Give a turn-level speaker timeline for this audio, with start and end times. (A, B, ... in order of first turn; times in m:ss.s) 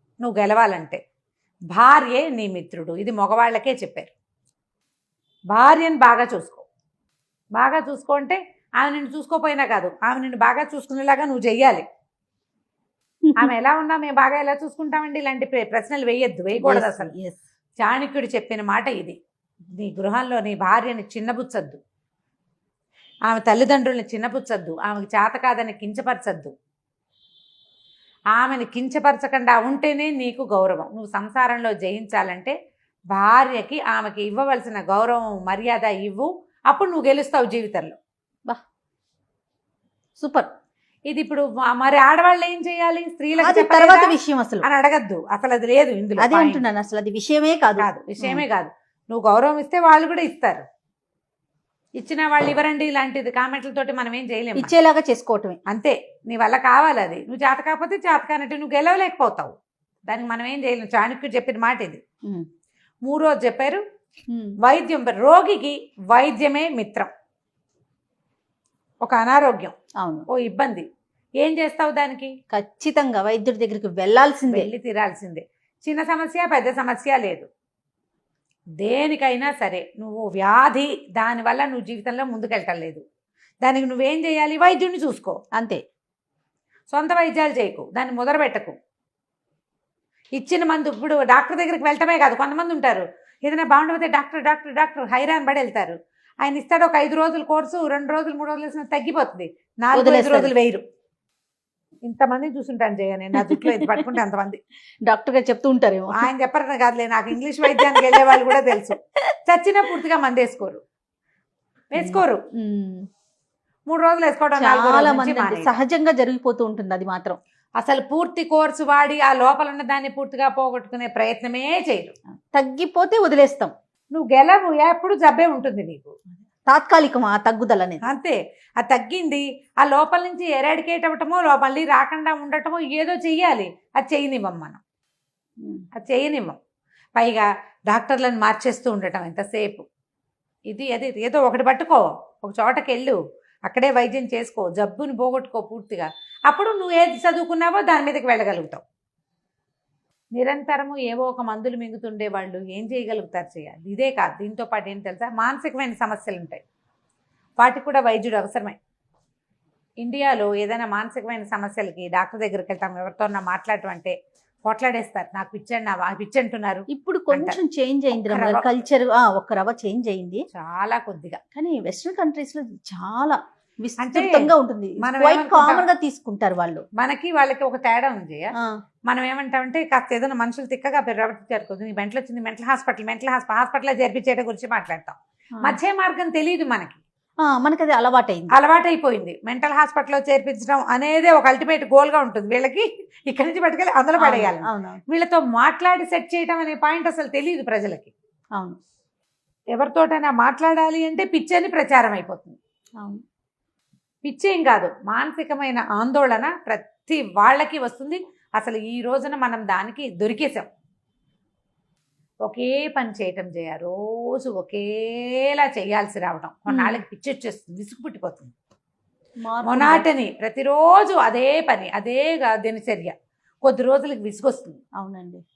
0:00.2-0:01.0 A
0:01.7-0:04.1 A
0:05.5-0:06.6 A
0:07.6-0:11.8 A
0:13.2-0:13.5 B
0:13.4-0:17.1 A
0:16.6-0:17.4 B
0:17.8-0:19.2 A
0:19.8-0:21.8 A
0:23.3-0:26.5 A
0:28.3-0:32.6 A
0:33.1-0:38.0 A
0:40.2-0:40.5 B
0:41.1-0:46.6 A
0:43.4-0:44.7 B
0:46.2-0:48.4 B
0:47.8-0:50.7 A
0:52.0-0:54.7 A
0:54.6-0:55.6 B
0:55.7-0:59.6 A
1:00.1-1:02.0 A
1:03.0-1:03.8 A
1:04.3-1:04.6 B
1:04.6-1:07.1 A
1:09.0-1:09.7 A
1:10.0-1:10.3 B
1:10.3-1:10.9 A
1:11.4-1:12.3 A
1:12.5-1:14.7 B
1:14.5-1:17.5 A
1:18.8-1:23.0 A
1:23.6-1:25.4 A
1:25.6-1:25.8 B
1:26.9-1:28.8 A
1:30.4-1:40.8 A
1:39.9-1:40.5 B
1:42.1-1:44.6 A
1:43.4-1:44.1 B
1:45.1-1:46.3 B
1:46.2-1:49.0 A
1:47.7-1:48.6 B
1:49.5-1:50.8 A
1:51.9-1:52.4 A
1:52.0-1:53.1 B
1:53.9-1:55.8 A
1:54.6-1:57.4 B
1:57.8-2:02.2 A
2:02.5-2:03.7 B
2:04.1-2:06.2 A
2:06.7-2:08.0 B
2:08.0-2:14.8 A
2:16.0-2:16.6 A
2:17.2-2:19.9 A
2:20.7-2:28.8 A
2:30.4-2:36.6 A
2:37.6-2:38.8 A
2:40.0-2:47.6 A
2:46.9-2:50.4 B
2:48.1-2:48.7 A
2:50.5-2:51.4 A
2:51.6-2:56.9 B
2:54.0-2:55.9 A
2:57.0-2:58.5 A
2:59.1-3:07.0 A
3:07.4-3:08.5 B
3:08.5-3:18.1 A
3:14.2-3:15.0 B
3:19.7-3:22.6 A
3:24.2-3:30.7 A
3:32.4-3:38.5 A
3:36.7-3:37.0 B
3:39.4-3:40.1 B
3:39.6-3:44.8 A
3:45.0-3:45.4 B